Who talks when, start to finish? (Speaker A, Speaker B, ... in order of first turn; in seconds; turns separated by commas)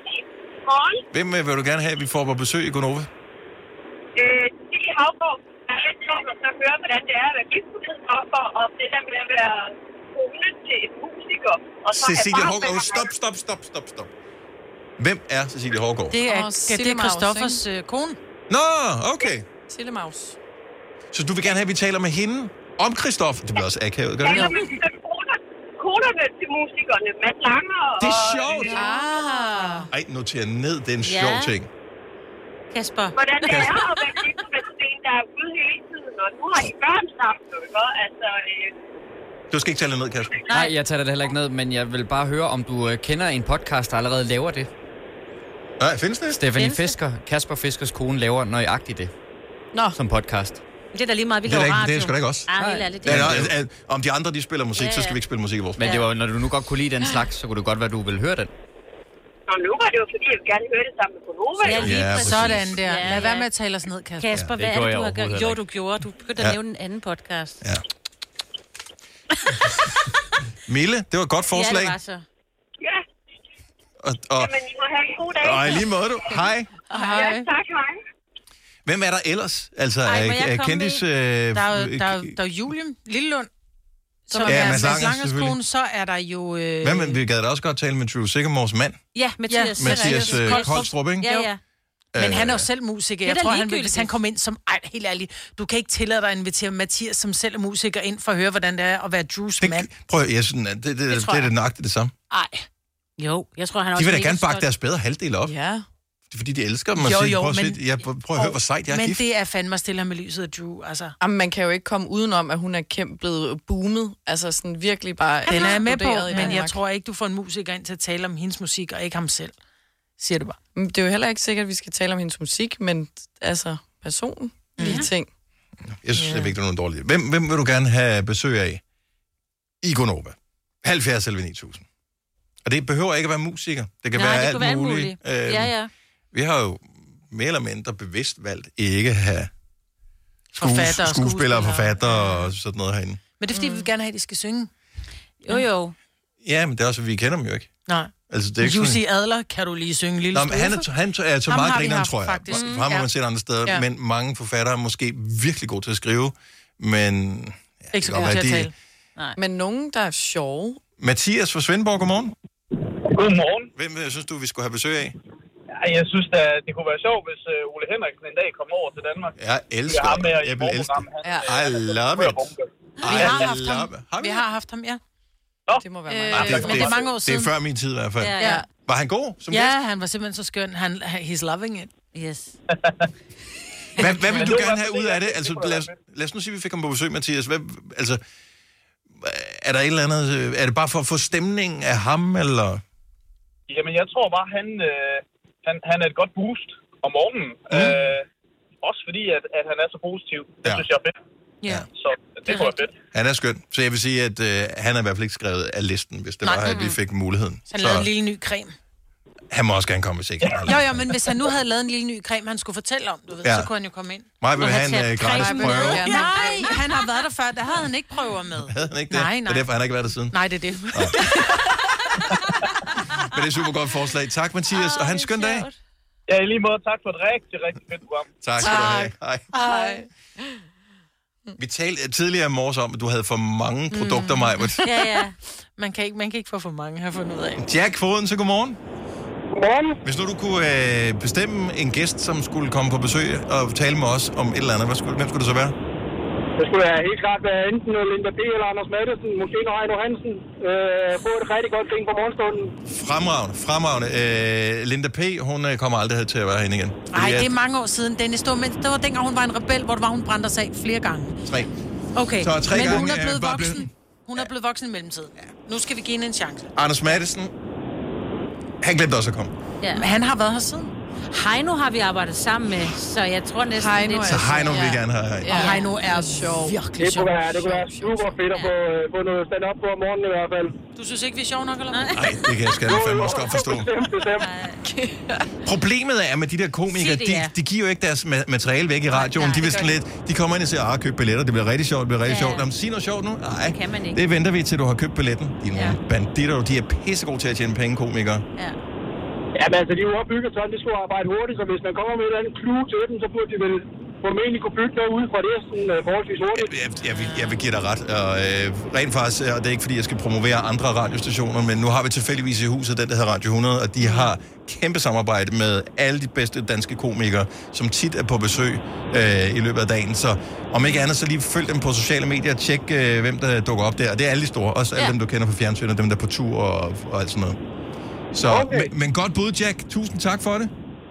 Speaker A: 0.7-1.0, Speaker B: 1.1-3.1, Speaker A: 4.2-13.1, Speaker B: 11.9-14.1, Speaker B: 15.0-16.2, Speaker C: 16.1-18.2, Speaker D: 16.2-17.6, Speaker B: 18.5-19.4, Speaker D: 19.7-20.4, Speaker B: 21.1-24.6, Speaker A: 24.2-28.5, Speaker D: 24.3-24.6, Speaker B: 28.0-28.9, Speaker E: 28.6-29.9, Speaker D: 28.7-29.9, Speaker B: 29.9-31.7, Speaker E: 31.0-31.5, Speaker E: 32.7-33.9, Speaker A: 33.1-38.7, Speaker B: 33.4-33.8, Speaker B: 39.5-40.4, Speaker E: 40.5-40.7, Speaker F: 40.5-44.7, Speaker B: 45.8-46.5, Speaker F: 46.3-49.1, Speaker E: 46.5-47.0, Speaker D: 49.7-50.0, Speaker F: 49.9-50.6, Speaker E: 50.9-53.4, Speaker B: 51.4-52.5, Speaker D: 52.6-53.0, Speaker B: 53.0-56.0, Speaker F: 53.0-53.5, Speaker E: 54.8-55.2, Speaker F: 55.8-58.5, Speaker E: 55.8-56.1, Speaker D: 57.0-57.2, Speaker A: 59.5-62.1, Speaker E: 61.6-63.5, Speaker B: 61.7-62.7, Speaker C: 62.1-64.3, Speaker E: 64.2-67.6, Speaker F: 64.5-65.6, Speaker B: 70.7-72.0, Speaker E: 71.5-72.2, Speaker B: 74.0-74.5, Speaker A: 74.4-76.0, Speaker B: 75.3-76.7, Speaker C: 76.9-77.5, Speaker A: 77.1-78.0, Speaker B: 78.8-82.3, Speaker E: 80.0-81.0, Speaker C: 81.5-83.5, Speaker C: 84.3-87.2, Speaker D: 84.3-85.0, Speaker B: 84.5-85.6, Speaker B: 86.8-89.0, Speaker E: 89.1-91.6, Speaker C: 89.5-90.9, Speaker B: 89.8-91.5, Speaker B: 92.1-92.7, Speaker C: 92.2-99.9, Speaker E: 93.2-94.1, Speaker B: 99.6-102.1, Speaker E: 101.1-101.5, Speaker C: 102.3-102.6, Speaker E: 103.2-104.7, Speaker B: 104.0-105.5, Speaker D: 105.4-105.8, Speaker B: 106.3-109.2, Speaker C: 107.0-111.1, Speaker D: 111.2-116.8, Speaker E: 115.5-115.8, Speaker C: 115.5-119.5, Speaker E: 116.3-116.6, Speaker C: 120.2-120.6, Speaker D: 120.7-125.3, Speaker E: 124.8-125.1, Speaker C: 124.8-125.0, Speaker B: 125.8-128.8, Speaker D: 126.2-126.5, Speaker B: 129.8-131.8, Speaker B: 132.6-135.7, Speaker E: 134.1-135.9, Speaker B: 136.3-139.5, Speaker C: 140.5-142.5, Speaker B: 140.6-143.2, Speaker C: 143.4-144.7, Speaker E: 143.5-143.9, Speaker E: 145.4-145.9, Speaker B: 146.4-147.7, Speaker C: 147.9-150.9, Speaker B: 148.3-149.0, Speaker B: 150.3-158.7, Speaker C: 151.5-153.1, Speaker E: 152.5-152.9, Speaker C: 157.9-158.7, Speaker D: 159.4-160.8, Speaker B: 161.0-162.3, Speaker G: 163.1-163.7, Speaker B: 163.7-165.2, Speaker G: 165.8-169.3, Speaker B: 169.4-172.4, Speaker G: 169.9-173.4, Speaker D: 171.2-171.6, Speaker C: 173.0-175.0, Speaker B: 173.0-174.4, Speaker D: 175.8-177.0, Speaker C: 176.1-177.5, Speaker B: 176.3-179.8, Speaker E: 178.2-178.6, Speaker D: 178.4-178.6, Speaker C: 179.5-181.9, Speaker E: 182.1-182.5, Speaker B: 184.0-188.2, Speaker G: 184.2-185.9, Speaker B: 189.2-192.8, Speaker G: 193.7-198.2, Speaker B: 197.7-198.1, Speaker G: 198.8-201.1, Speaker G: 201.9-202.9, Speaker E: 202.5-202.7, Speaker B: 203.1-208.1, Speaker C: 206.4-206.8, Speaker E: 206.6-206.9, Speaker C: 207.7-208.7, Speaker B: 209.5-211.1, Speaker C: 210.6-219.7, Speaker B: 213.4-213.7, Speaker B: 214.4-216.1, Speaker E: 214.6-216.7, Speaker D: 215.2-216.8, Speaker B: 218.7-220.3, Speaker C: 220.3-222.1, Speaker B: 220.9-221.2, Speaker B: 223.2-225.7, Speaker E: 224.7-225.8, Speaker G: 226.3-228.3, Speaker B: 228.4-229.5, Speaker D: 228.6-230.6, Speaker E: 229.6-229.9, Speaker B: 231.6-234.8, Speaker C: 234.0-235.2, Speaker E: 234.8-235.3, Speaker C: 235.8-237.6, Speaker B: 237.6-238.8, Speaker H: 239.5-240.0, Speaker B: 240.0-245.8, Speaker H: 246.6-252.7, Speaker B: 252.8-257.5, Speaker C: 257.1-261.4, Speaker B: 261.4-261.7, Speaker C: 262.1-266.7, Speaker B: 262.4-264.5, Speaker D: 262.7-263.0, Speaker B: 266.7-267.5, Speaker B: 268.8-269.5, Speaker E: 269.8-270.1, Speaker C: 269.9-270.9, Speaker E: 271.2-275.0, Speaker D: 273.7-278.3, Speaker B: 274.2-275.6, Speaker C: 275.5-277.9, Speaker E: 275.5-275.9, Speaker H: 277.0-280.7, Speaker C: 280.9-282.1, Speaker E: 281.9-282.5, Speaker B: 282.1-283.9, Speaker H: 282.8-284.5, Speaker E: 284.4-284.8, Speaker D: 284.8-285.6, Speaker B: 285.6-298.4, Speaker E: 286.9-287.5, Speaker E: 289.1-290.0, Speaker E: 292.2-292.6, Speaker E: 293.7-294.2, Speaker H: 299.6-306.7, Speaker B: 306.5-327.6, Speaker B: 328.3-330.7, Speaker H: 328.4-328.9